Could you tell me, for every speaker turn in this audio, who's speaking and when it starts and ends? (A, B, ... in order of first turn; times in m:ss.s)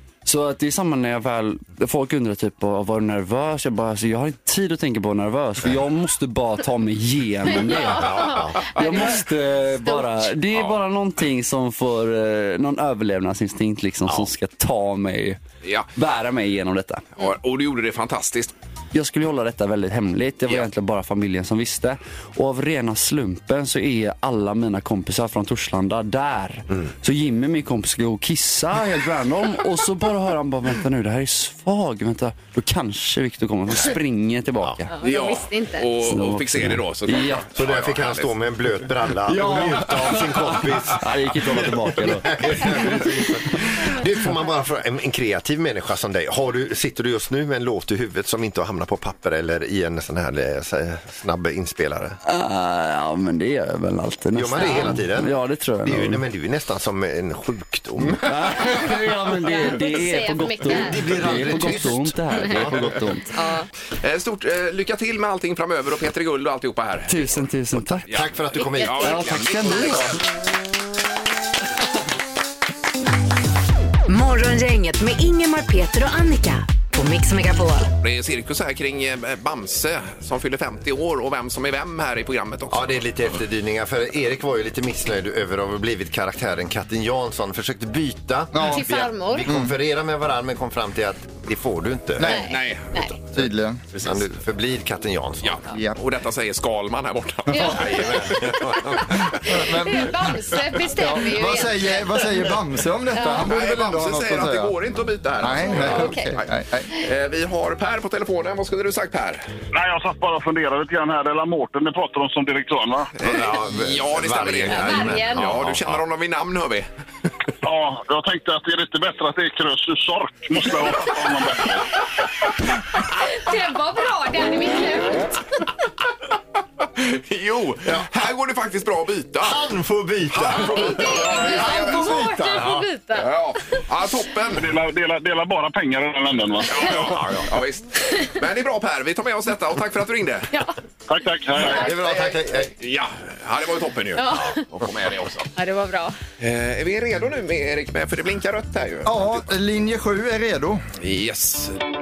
0:00.2-0:15.4 A
0:07.6-0:09.2 B
0:07.9-0:08.6 C
0:15.6-0:15.9 D
0:15.9-0:17.0 A
0:17.2-0:18.5 D
0:18.9-0:34.9 A
0:34.9-0:36.0 B
0:35.0-0:38.4 D
0:36.0-0:37.5 A
0:37.5-0:52.2 C
0:39.2-0:43.6 A
0:52.2-0:56.2 A
0:54.3-0:58.8 C
0:54.6-0:54.9 B
0:58.1-1:03.3 A
0:59.5-1:01.5 B
1:00.6-1:03.0 C
1:03.3-1:03.7 B
1:04.0-1:07.4 D
1:07.1-1:08.1 A
1:07.7-1:09.7 C
1:08.1-1:10.2 D
1:08.5-1:09.0 B
1:09.0-1:10.2 A
1:14.1-1:17.9 E
1:18.0-1:23.0 D
1:22.7-1:32.3 C
1:28.5-1:29.7 F
1:28.6-1:29.5 B
1:32.2-1:32.5 F
1:32.2-1:33.2 B
1:32.3-1:33.2 D
1:33.3-1:33.8 F
1:33.9-1:34.2 D
1:34.0-1:35.6 C
1:35.4-1:39.4 D
1:35.7-1:36.0 F
1:37.5-1:39.0 B
1:37.8-1:39.2 C
1:39.4-1:40.1 F
1:39.6-1:42.4 B
1:41.0-1:44.7 F
1:43.1-1:43.5 B
1:43.4-1:49.4 D
1:45.4-1:46.9 F
1:45.7-1:46.3 B
1:49.7-1:53.1 G
1:53.2-1:56.8 D
1:53.2-1:56.0 C
1:54.7-1:55.5 B
1:57.6-2:02.0 G
2:03.1-2:05.4 B
2:06.9-2:09.7 D
2:09.4-2:11.4 C
2:10.3-2:14.6 D
2:10.6-2:13.4 B
2:11.4-2:12.6 F
2:12.5-2:12.9 C
2:14.6-2:16.9 G
2:16.7-2:20.5 D
2:16.9-2:17.5 C
2:21.1-2:21.8 G
2:21.6-2:22.7 C
2:21.8-2:25.5 D
2:24.2-2:24.6 B
2:25.5-2:26.2 B
2:26.4-2:29.5 D
2:29.0-2:30.8 F
2:31.0-2:31.8 D